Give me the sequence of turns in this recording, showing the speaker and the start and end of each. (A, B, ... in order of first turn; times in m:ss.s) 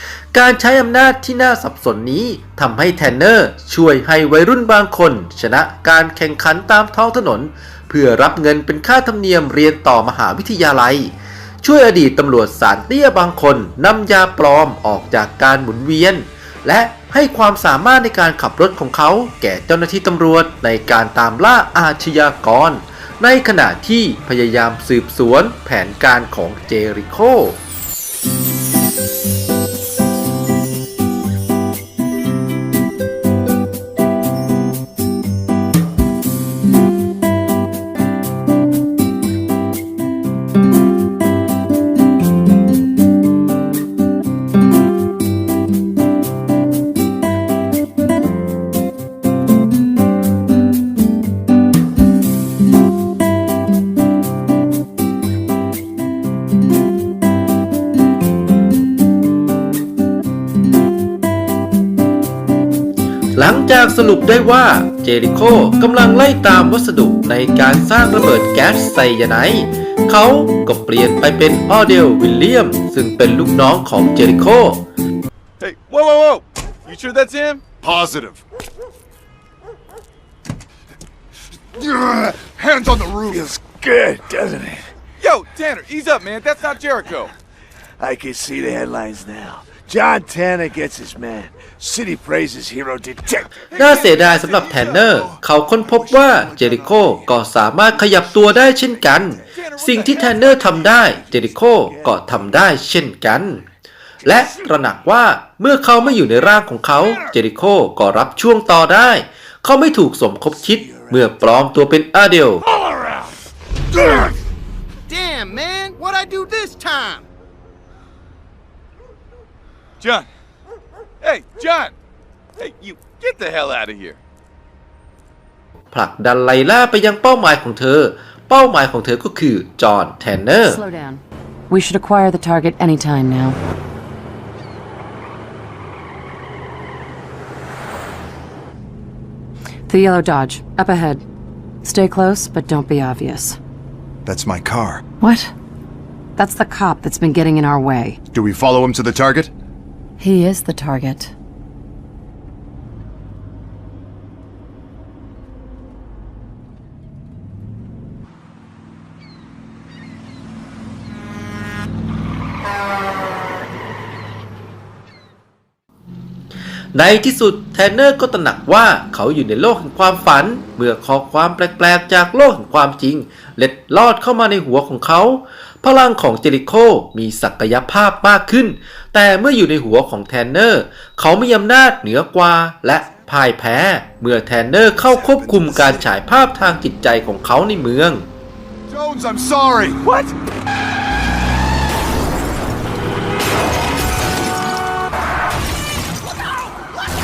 0:00.3-0:27.6 A
1:03.4-1:14.8 A
1:15.6-1:17.6 B
1:17.8-1:18.4 C
1:21.7-1:23.4 C
1:23.3-1:24.9 D
1:25.2-1:27.3 B
1:28.0-1:33.8 D
1:33.7-1:35.2 B
1:33.8-1:43.7 A
1:34.7-1:37.2 C
1:38.0-1:38.8 C
1:39.5-1:40.9 B
1:41.1-1:42.4 D
1:44.2-1:52.6 A
1:50.6-1:51.4 D
1:55.1-1:57.2 E
2:00.0-2:00.3 B
2:01.2-2:01.9 B
2:02.6-2:04.2 B
2:05.9-2:10.8 A
2:10.6-2:13.6 F
2:19.9-2:21.2 F
2:21.8-2:23.6 F
2:24.3-2:25.0 C
2:25.2-2:25.5 F
2:26.4-2:28.2 F
2:28.3-2:29.5 C
2:30.2-2:31.3 F
2:46.9-3:08.3 A
3:05.0-3:06.1 C
3:08.9-3:10.0 C
3:10.0-3:10.3 B